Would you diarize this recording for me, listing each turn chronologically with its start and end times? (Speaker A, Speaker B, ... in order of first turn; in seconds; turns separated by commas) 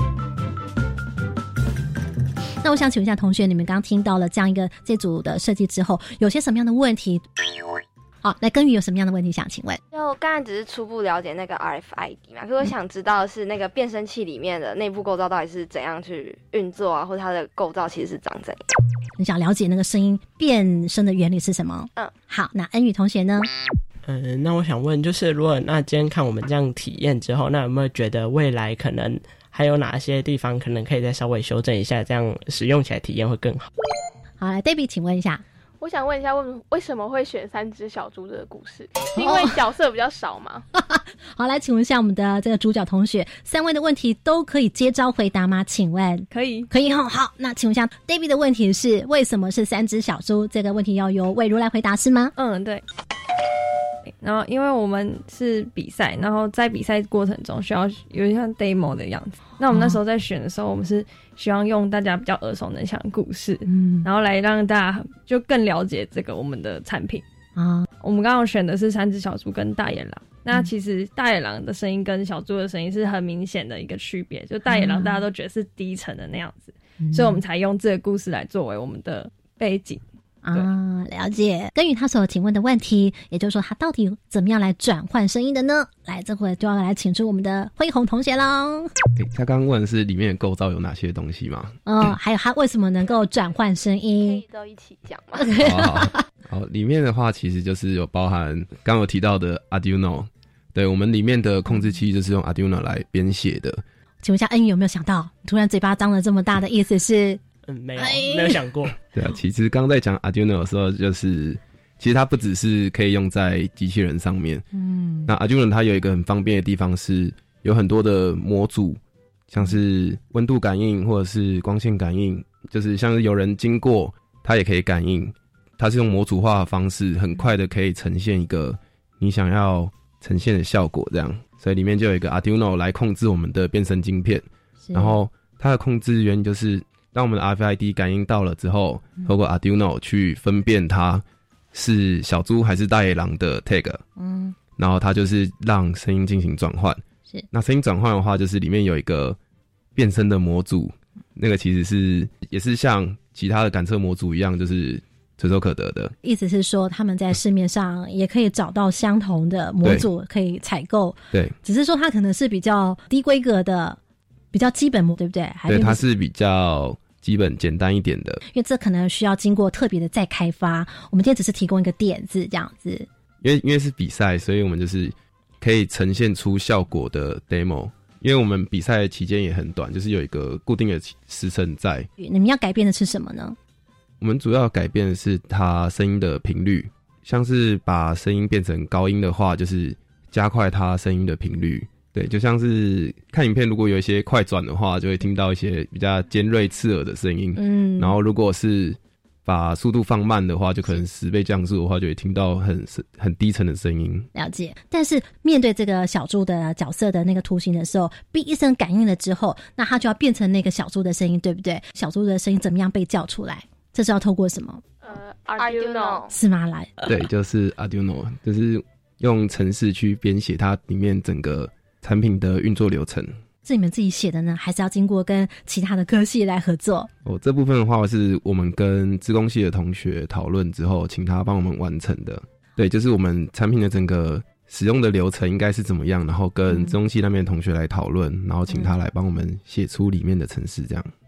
Speaker A: 2.6-7.2, Speaker A: 8.2-9.8, Speaker B: 9.9-18.6, Speaker A: 19.2-23.5, Speaker C: 24.1-33.7, Speaker A: 34.4-35.4, Speaker D: 35.8-40.6, Speaker A: 39.2-39.6, Speaker A: 40.7-52.3, Speaker E: 46.3-46.7, Speaker E: 52.4-52.8, Speaker E: 54.1-67.2, Speaker A: 59.7-60.0, Speaker A: 63.7-64.1, Speaker A: 67.6-67.9, Speaker E: 68.0-80.7, Speaker A: 74.7-75.2, Speaker A: 77.0-77.4, Speaker A: 80.4-88.9, Speaker F: 89.2-92.1, Speaker A: 91.9-94.4, Speaker B: 94.2-95.5, Speaker A: 95.4-96.2, Speaker F: 95.6-103.8, Speaker A: 104.2-107.4, Speaker C: 107.7-109.0, Speaker A: 108.0-108.6, Speaker F: 109.1-114.7, Speaker A: 114.7-115.3, Speaker F: 115.3-144.0, Speaker A: 134.8-135.2, Speaker A: 144.2-144.6, Speaker F: 144.8-149.4, Speaker F: 149.9-156.1, Speaker A: 156.2-164.0, Speaker A: 164.5-166.0, Speaker F: 165.7-168.4, Speaker A: 168.5-173.1, Speaker F: 173.4-182.1, Speaker A: 182.2-183.6, Speaker F: 184.2-204.3, Speaker A: 197.6-198.2, Speaker A: 204.3-214.8, Speaker D: 215.0-216.3, Speaker B: 215.6-216.3, Speaker A: 216.3-216.9, Speaker F: 217.1-223.3, Speaker A: 223.7-227.1, Speaker F: 227.2-241.1, Speaker A: 236.7-236.9, Speaker A: 238.7-238.9